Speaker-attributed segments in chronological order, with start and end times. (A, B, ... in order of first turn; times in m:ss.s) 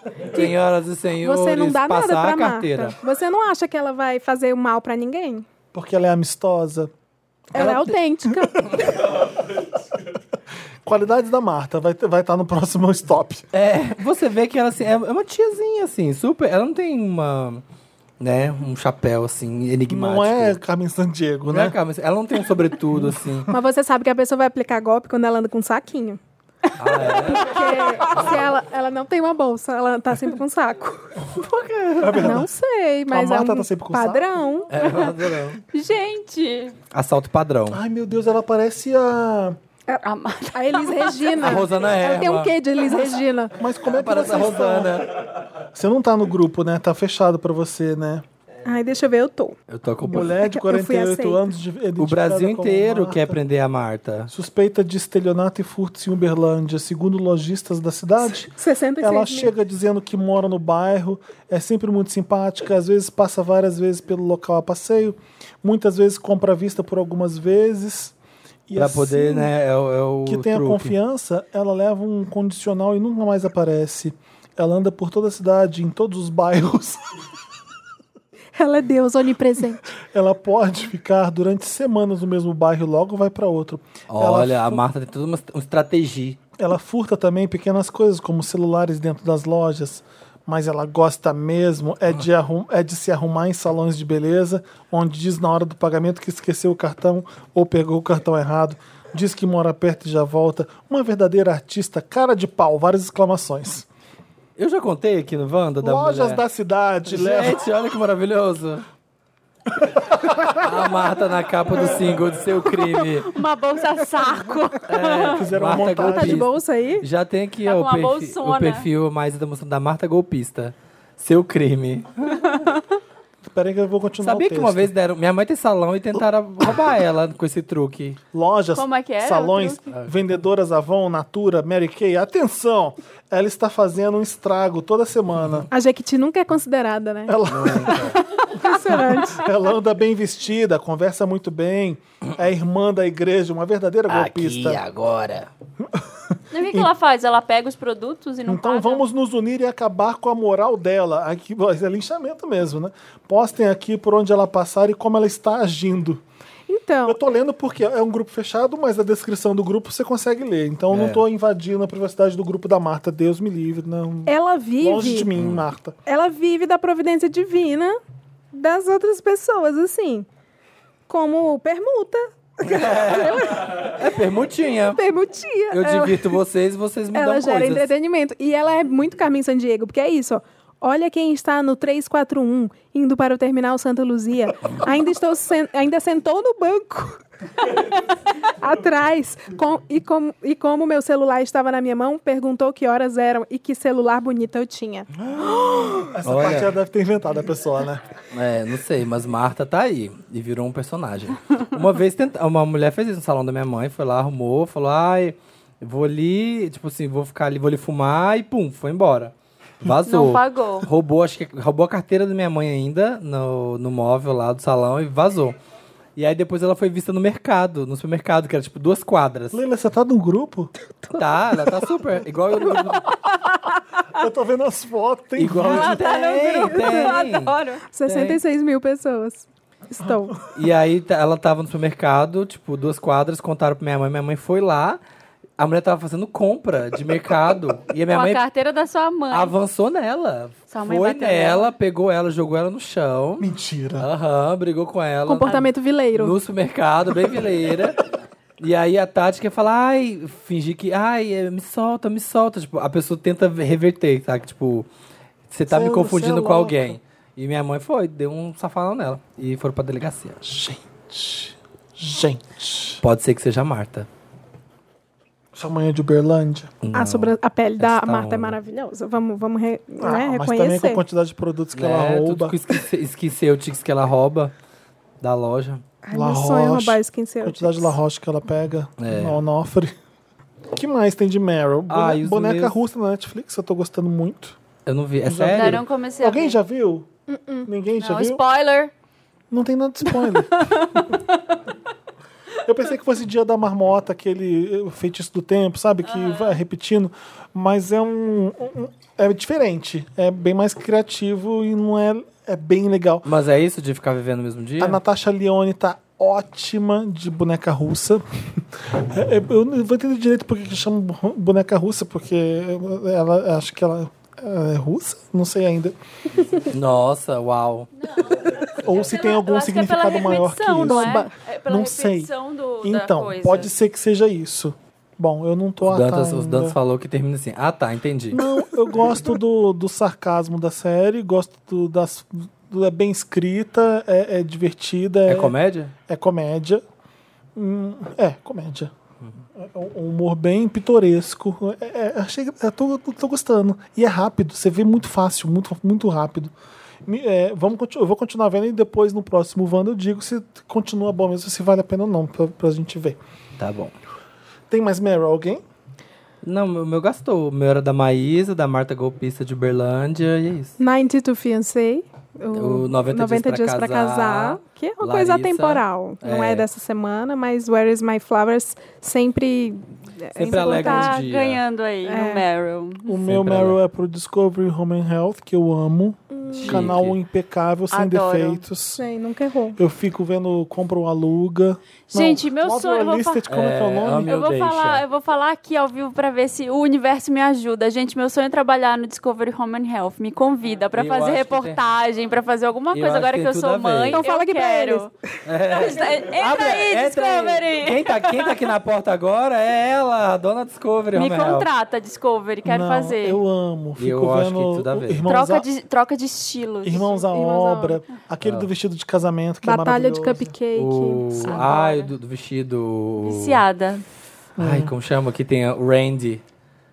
0:00.2-0:03.0 A
0:01.2-0:05.4 B
0:05.7-0:06.9 C
0:07.5-0:08.8 B
0:07.5-0:08.0 A
0:10.8-0:13.4 C
0:13.5-0:17.6 A
0:18.2-0:20.6 A
0:19.9-0:21.8 C
0:21.5-0:23.5 A
0:23.0-0:23.5 C
0:23.5-0:26.2 B
0:26.8-0:28.4 A
0:27.2-0:31.2 B
0:31.3-0:32.4 A
0:32.0-0:32.5 C
0:32.0-0:34.7 B
0:33.1-0:34.4 C
0:34.7-0:35.6 A
0:35.7-0:36.8 D
0:36.9-0:37.8 A
0:37.7-0:39.6 C
0:39.9-0:43.5 B
0:40.0-0:41.5 D
0:41.4-0:42.5 A
0:43.5-0:45.1 C
0:43.8-0:45.2 A
0:45.6-0:48.2 C
0:48.6-0:49.6 B
0:49.7-0:50.4 A
0:50.0-0:53.4 C
0:50.1-0:51.5 B
0:52.0-0:54.3 A
0:54.3-1:08.1 C
0:58.4-0:59.5 B
1:08.7-1:09.5 C
1:08.8-1:10.9 A
1:10.2-1:17.0 C
1:18.6-1:19.8 B
1:19.9-1:24.8 C
1:24.1-1:26.4 A
1:26.6-1:43.9 C
1:44.6-1:46.4 A
1:45.8-1:47.7 C
1:47.1-1:48.8 A
1:49.8-1:50.7 C
1:50.5-1:53.3 A
1:52.8-1:55.4 D
1:54.9-2:02.6 A
1:55.3-1:56.5 C
1:55.9-1:57.0 B
1:57.6-1:58.9 D
2:03.4-2:04.9 C
2:04.2-2:08.2 A
2:08.3-2:15.7 C
2:08.7-2:09.8 D
2:15.4-2:15.6 A
2:15.7-2:17.4 B
2:17.3-2:18.2 C
2:17.5-2:18.2 A
2:18.4-2:18.9 D
2:18.5-2:19.4 B
2:19.0-2:24.8 C
2:24.1-2:25.5 A
2:25.8-2:26.1 C
2:26.5-2:29.0 D
2:26.6-2:26.9 C
2:28.4-2:36.2 C
2:36.7-2:37.2 B
2:37.0-2:46.0 C
2:40.9-2:41.2 A
2:44.2-2:45.3 B
2:45.4-2:45.6 A
2:46.0-2:48.0 B
2:48.5-2:50.3 B
2:51.1-2:54.0 B
2:52.6-2:55.0 A
2:54.9-2:56.4 B
2:55.7-2:57.9 A
2:57.1-3:15.1 B
3:15.2-3:16.7 A
3:16.0-3:18.1 C
3:18.3-3:35.6 A
3:30.1-3:30.9 D
3:36.2-3:39.6 A
3:39.5-3:40.7 C
3:41.1-3:43.1 A
3:44.1-3:46.0 C
3:45.4-3:48.4 A
3:45.6-3:47.8 D
3:46.7-3:47.1 B
3:47.9-3:50.4 B
3:50.5-3:55.0 A
3:55.6-3:58.4 A
3:58.1-3:59.5 D
3:59.3-4:03.5 A
4:00.7-4:01.7 D
4:03.4-4:04.1 C
4:04.0-4:08.0 A
4:05.2-4:06.3 B
4:08.6-4:14.9 A
4:15.5-4:20.4 A
4:15.7-4:17.0 C
4:20.4-4:23.0 C
4:23.0-4:24.1 A
4:25.5-4:26.7 C
4:26.8-4:28.6 A
4:26.9-4:31.0 B
4:30.0-4:32.6 C
4:31.7-4:34.5 A
4:35.2-4:35.8 A
4:36.0-4:38.0 B
4:36.1-4:39.9 C
4:39.0-4:39.4 A
4:40.7-4:44.6 C
4:41.9-4:42.7 A
4:44.8-4:45.8 A
4:45.2-4:47.1 C
4:45.5-4:46.6 D
4:47.3-4:47.7 B
4:47.6-4:48.4 C
4:48.0-4:48.9 D
4:49.5-4:50.8 C
4:50.2-4:51.6 D
4:52.6-5:03.2 C
4:56.1-4:56.6 D
5:03.2-5:05.0 A
5:04.8-5:16.5 C
5:16.6-5:17.9 A
5:18.0-5:23.7 D
5:18.7-5:22.3 C
5:20.8-5:21.3 B
5:22.8-5:26.8 C
5:25.8-5:28.4 A
5:28.3-5:35.5 C
5:35.3-5:35.9 A
5:36.1-5:36.8 C
5:37.6-5:38.9 C
5:39.6-5:46.5 C
5:47.0-5:53.2 C
5:53.6-5:53.9 A
5:54.7-5:55.6 C
5:56.4-6:00.8 A
6:00.8-6:11.2 B
6:02.5-6:06.6 A
6:10.3-6:11.6 A
6:10.5-6:13.2 D
6:12.0-6:12.4 B
6:13.0-6:19.0 C
6:13.2-6:13.8 A
6:16.3-6:16.7 B
6:16.6-6:17.2 A
6:17.9-6:18.6 D
6:19.0-6:19.8 B
6:19.8-6:24.3 C
6:22.1-6:23.4 D
6:23.5-6:25.0 A
6:24.2-6:35.1 D
6:30.9-6:31.8 A
6:32.9-6:34.2 A
6:34.1-6:35.1 B
6:35.4-6:41.7 A
6:35.7-6:38.6 D
6:41.1-6:43.4 D
6:42.6-6:45.6 C
6:44.0-6:45.2 A
6:45.3-6:47.1 D
6:46.8-6:50.5 C
6:46.9-6:48.0 B
6:48.4-6:48.7 A
6:49.6-6:51.6 B
6:50.7-6:53.6 A
6:51.4-6:52.1 D
6:53.2-6:54.0 D
6:54.6-6:54.9 C
6:54.6-6:56.4 A